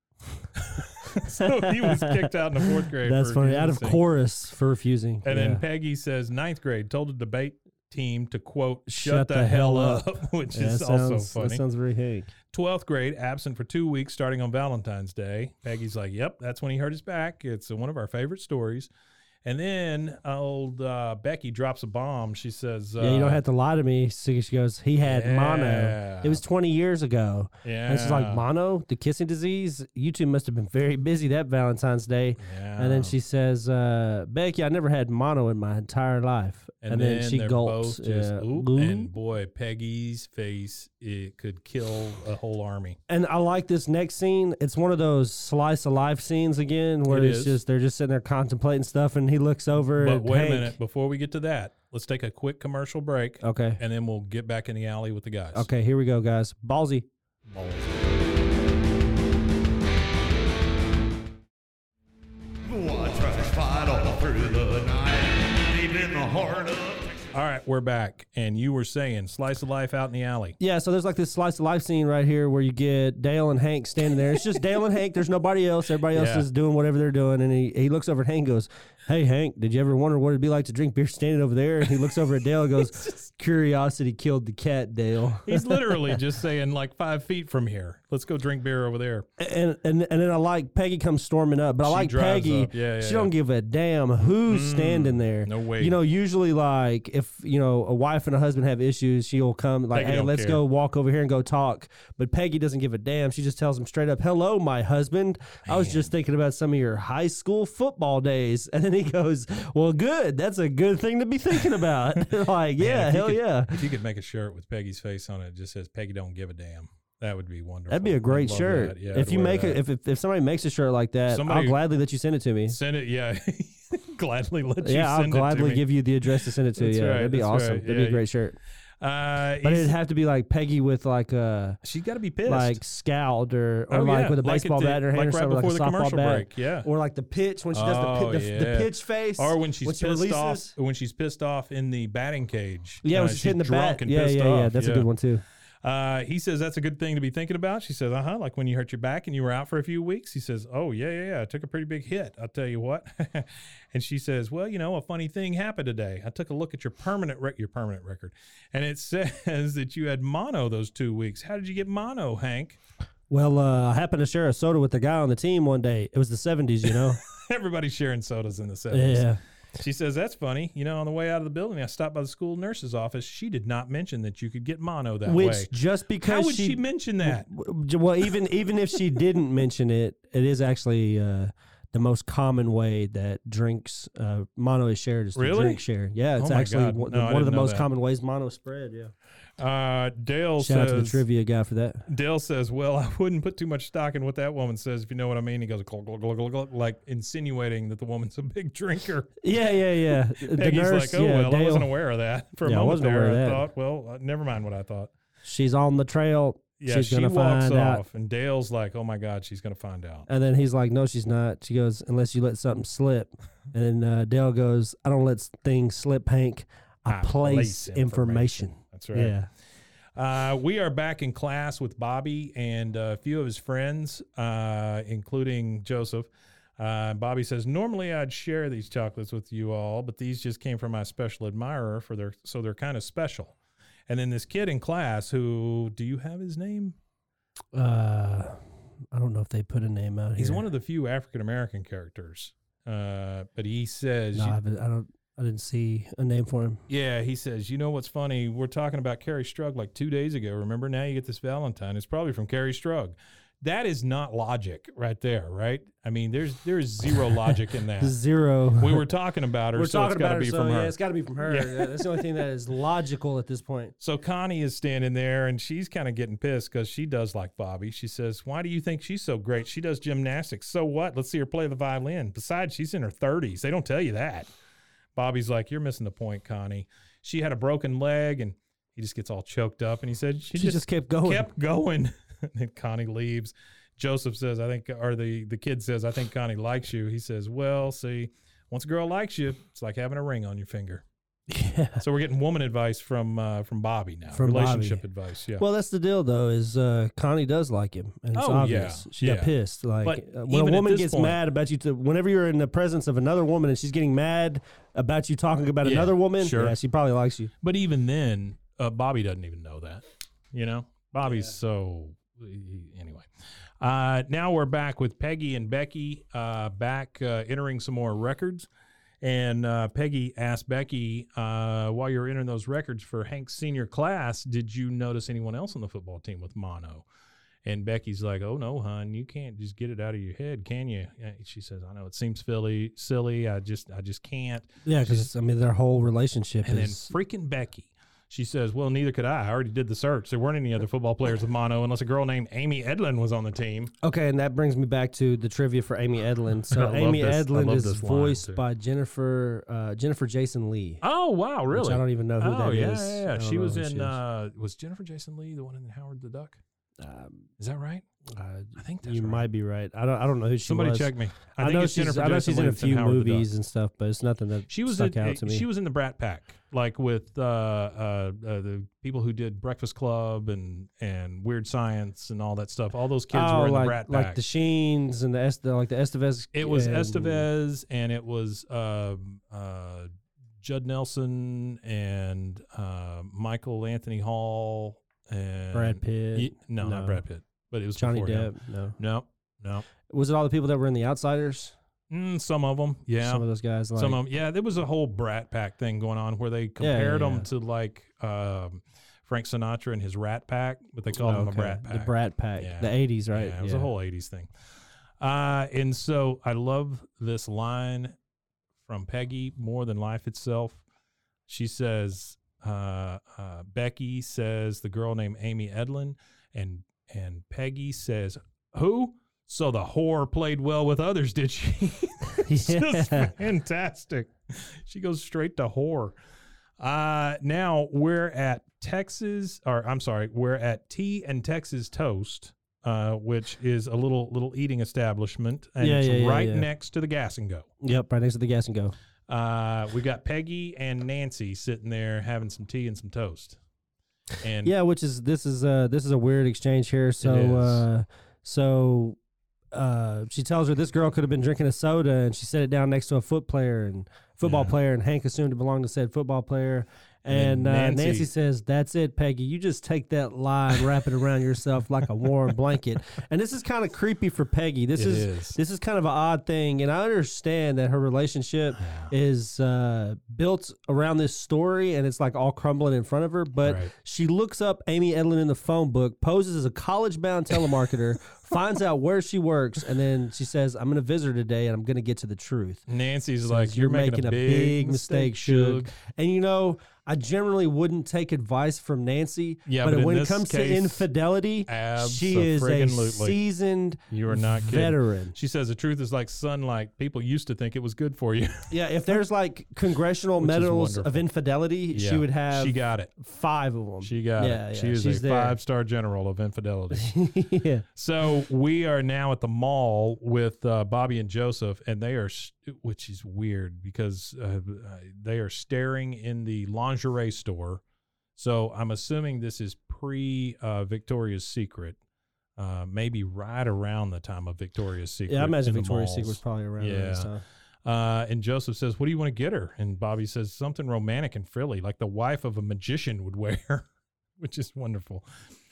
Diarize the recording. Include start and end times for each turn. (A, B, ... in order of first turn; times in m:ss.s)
0:00.6-0:04.0 A
0:01.3-0:05.6 B
0:05.2-0:11.6 A
0:08.9-0:12.3 B
0:12.5-0:18.9 A
0:19.4-0:23.4 A
0:23.0-0:39.1 B
0:25.0-0:26.4 A
0:27.6-0:28.5 A
0:32.4-0:33.2 A
0:36.8-0:43.0 A
0:43.1-0:50.8 B
0:47.1-0:47.6 A
0:49.9-0:55.7 A
0:53.4-0:53.8 B
0:55.5-0:57.1 B
0:57.4-0:58.2 A
1:02.6-1:07.3 C
1:07.3-1:10.6 A
1:10.6-1:26.2 B
1:16.1-1:16.5 A
1:25.4-1:29.3 A
1:29.4-1:53.8 B
1:31.8-1:33.3 A
1:34.3-1:35.9 A
1:39.9-1:40.6 A
1:45.6-1:46.1 A
1:52.8-1:59.8 A
1:57.9-2:02.8 B
2:01.3-2:01.8 A
2:02.7-2:05.8 A
2:04.8-2:08.6 B
2:06.4-2:08.2 A
2:09.0-2:09.9 A
2:09.6-2:11.8 B
2:11.8-2:12.8 A
2:12.4-2:20.7 B
2:13.9-2:16.9 A
2:17.7-2:25.1 A
2:23.0-2:25.4 B
2:25.8-2:42.8 A
2:43.3-2:47.2 B
2:46.9-2:57.5 A
2:48.9-2:49.4 B
2:55.3-3:09.1 B
3:05.4-3:05.8 A
3:06.4-3:07.9 A
3:09.6-3:11.2 A
3:10.6-3:12.0 B
3:12.1-3:19.4 A
3:19.4-3:21.9 B
3:20.1-3:25.1 A
3:22.6-3:23.6 B
3:25.4-3:28.0 B
3:26.8-3:30.3 A
3:30.3-3:39.5 B
3:37.1-3:39.4 A
3:40.2-3:53.6 A
3:54.1-3:57.0 A
3:57.7-3:58.6 B
3:59.1-4:00.6 B
4:00.4-4:04.6 A
4:04.4-4:06.8 B
4:06.9-4:18.1 A
4:18.0-4:19.0 B
4:18.8-4:22.2 A
4:19.8-4:23.9 B
4:24.0-4:34.5 A
4:35.2-4:51.0 A
4:40.5-4:41.5 B
4:51.5-4:52.0 B
4:52.0-4:55.6 A
4:54.3-4:55.0 B
4:55.6-5:07.5 B
4:58.3-5:01.4 A
5:05.8-5:06.8 A
5:07.6-5:13.3 A
5:13.8-5:18.7 A
5:19.2-5:27.1 A
5:27.6-5:35.3 A
5:34.8-5:37.1 B
5:36.6-5:43.9 A
5:44.0-5:51.0 B
5:46.7-5:48.6 A
5:51.0-5:56.6 A
5:51.7-5:54.2 B
5:57.0-5:57.5 B
5:57.6-5:58.0 A
5:58.3-6:05.6 B
5:58.8-5:59.4 A
6:00.6-6:03.5 A
6:04.7-6:14.4 A
6:13.3-6:17.4 B
6:16.5-6:20.1 A
6:20.6-6:29.9 A
6:25.7-6:27.2 B
6:28.0-6:29.0 B
6:30.1-6:31.8 B
6:32.1-6:33.4 A
6:33.2-6:34.2 B
6:34.0-6:44.5 A
6:36.8-6:37.5 B
6:41.2-6:43.9 B
6:45.2-6:48.2 A
6:48.9-6:50.8 A
6:51.5-7:06.2 A
7:02.4-7:03.3 B
7:06.8-7:17.7 A
7:15.8-7:16.6 B
7:17.8-7:18.9 B
7:19.3-7:23.6 A
7:24.4-7:24.7 A
7:24.6-7:29.2 B
7:27.2-7:27.8 A
7:29.7-8:02.8 B
7:34.4-7:34.7 A
7:37.3-7:38.3 A
7:44.9-7:45.6 A
7:48.8-7:49.1 A
7:53.6-7:53.9 A
8:02.9-8:05.9 A
8:03.4-8:15.4 B
8:09.7-8:11.1 A
8:11.7-8:13.4 A
8:14.1-8:19.2 A
8:18.7-8:25.6 B
8:20.4-8:21.3 A
8:21.9-8:23.1 A
8:24.0-8:27.1 A
8:26.9-8:27.8 B
8:28.0-8:37.8 A
8:38.4-8:42.0 A
8:42.6-8:47.3 A
8:45.3-8:47.4 B
8:47.8-8:55.3 A